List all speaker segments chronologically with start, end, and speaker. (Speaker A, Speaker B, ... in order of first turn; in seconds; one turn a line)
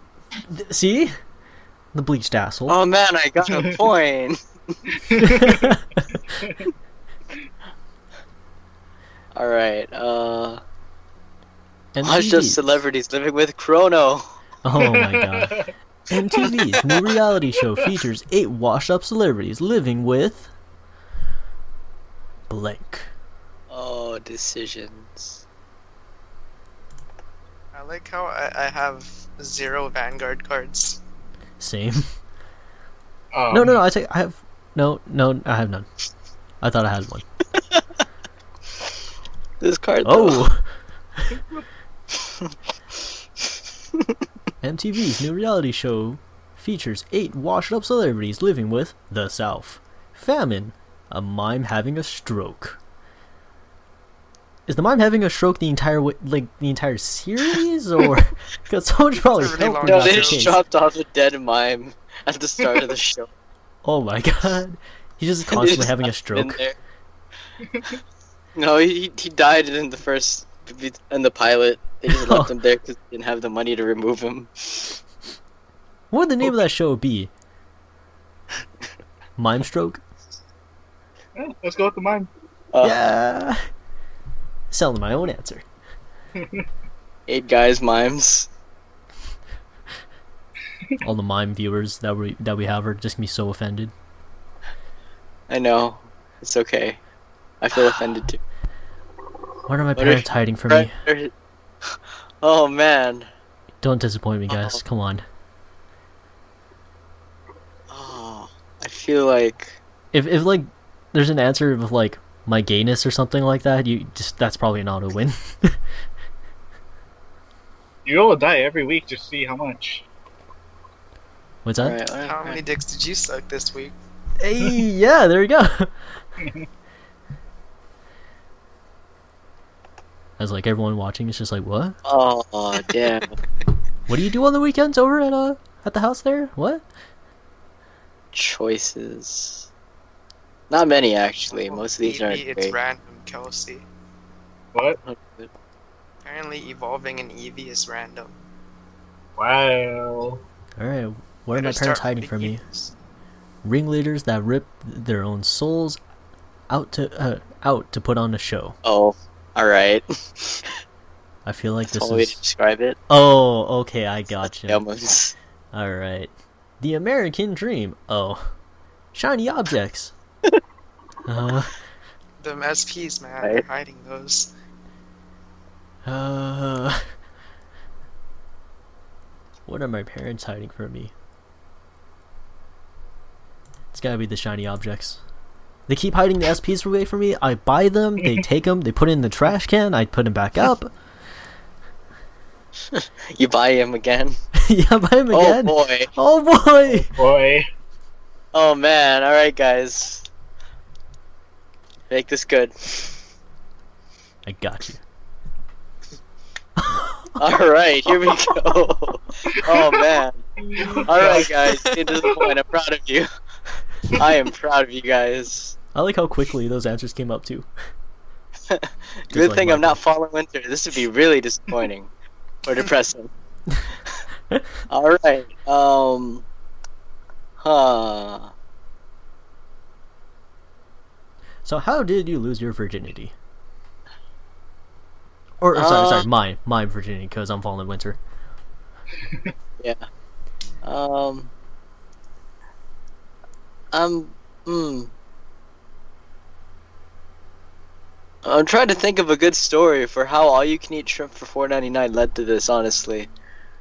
Speaker A: 0.5-1.2
Speaker A: 1.9-2.8
Speaker B: 2.7-4.8
Speaker C: 3.5-3.8
Speaker D: 5.0-5.6
Speaker A: 5.2-6.1
Speaker D: 6.3-6.7
Speaker B: 9.3-10.6
Speaker A: 11.9-12.8
Speaker B: 12.0-14.4
Speaker A: 14.6-15.6
Speaker D: 14.8-15.7
Speaker A: 16.1-20.5
Speaker A: 22.5-23.1
Speaker B: 23.7-25.4
Speaker C: 27.7-31.0
Speaker A: 31.6-32.1
Speaker D: 33.3-33.8
Speaker A: 33.5-35.9
Speaker A: 36.6-37.3
Speaker B: 39.6-40.4
Speaker A: 40.0-41.3
Speaker A: 44.6-52.8
Speaker A: 54.7-60.6
Speaker C: 59.3-60.6
Speaker B: 59.8-63.3
Speaker A: 63.8-66.6
Speaker B: 65.5-66.8
Speaker B: 68.6-75.0
Speaker A: 72.1-72.5
Speaker A: 76.1-77.3
Speaker A: 79.4-80.0
Speaker D: 81.4-82.3
Speaker B: 82.7-83.0
Speaker A: 82.8-83.7
Speaker A: 84.7-85.7
Speaker D: 86.4-86.7
Speaker B: 87.3-88.5
Speaker A: 91.0-93.9
Speaker B: 95.5-97.0
Speaker B: 97.6-98.4
Speaker A: 99.7-100.9
Speaker B: 100.0-101.3
Speaker B: 101.8-103.3
Speaker A: 103.8-105.2
Speaker B: 104.5-104.8
Speaker B: 107.9-109.8
Speaker A: 110.1-115.8
Speaker D: 118.0-120.0
Speaker A: 121.6-122.0
Speaker B: 121.8-122.6
Speaker C: 122.2-124.0
Speaker A: 124.4-126.2
Speaker A: 130.4-132.0
Speaker B: 132.1-133.3
Speaker A: 134.1-136.8
Speaker B: 138.3-139.7
Speaker B: 140.7-142.8
Speaker C: 141.6-143.8
Speaker D: 144.7-145.0
Speaker B: 145.0-145.5
Speaker C: 146.2-148.3
Speaker D: 149.4-150.4
Speaker A: 150.8-152.6
Speaker C: 151.6-152.9
Speaker A: 153.6-156.0
Speaker A: 156.7-158.8
Speaker B: 158.8-160.8
Speaker A: 161.5-162.4
Speaker B: 161.9-163.0
Speaker A: 163.1-164.8
Speaker B: 164.6-165.3
Speaker A: 165.7-168.5
Speaker A: 169.1-170.1
Speaker A: 171.3-171.7
Speaker C: 172.4-174.5
Speaker A: 176.1-177.1
Speaker A: 179.7-181.1
Speaker A: 183.9-185.2
Speaker A: 185.9-190.9
Speaker B: 192.9-194.4
Speaker A: 194.6-197.1
Speaker B: 195.3-196.1
Speaker D: 196.9-197.7
Speaker B: 198.5-200.3
Speaker B: 202.1-203.2
Speaker A: 204.5-205.0
Speaker A: 206.8-207.3
Speaker B: 207.4-210.4
Speaker D: 210.7-211.5
Speaker B: 211.0-213.3
Speaker C: 211.6-212.1
Speaker D: 212.2-212.5
Speaker B: 214.1-215.8
Speaker A: 215.9-217.7
Speaker B: 218.7-222.1
Speaker A: 219.3-220.0
Speaker B: 222.7-223.3
Speaker B: 224.9-226.5
Speaker B: 227.6-228.5
Speaker A: 231.7-233.3
Speaker A: 235.6-238.2
Speaker B: 235.8-236.3
Speaker D: 239.2-239.5
Speaker B: 240.8-241.5
Speaker B: 243.9-245.1
Speaker B: 248.4-253.3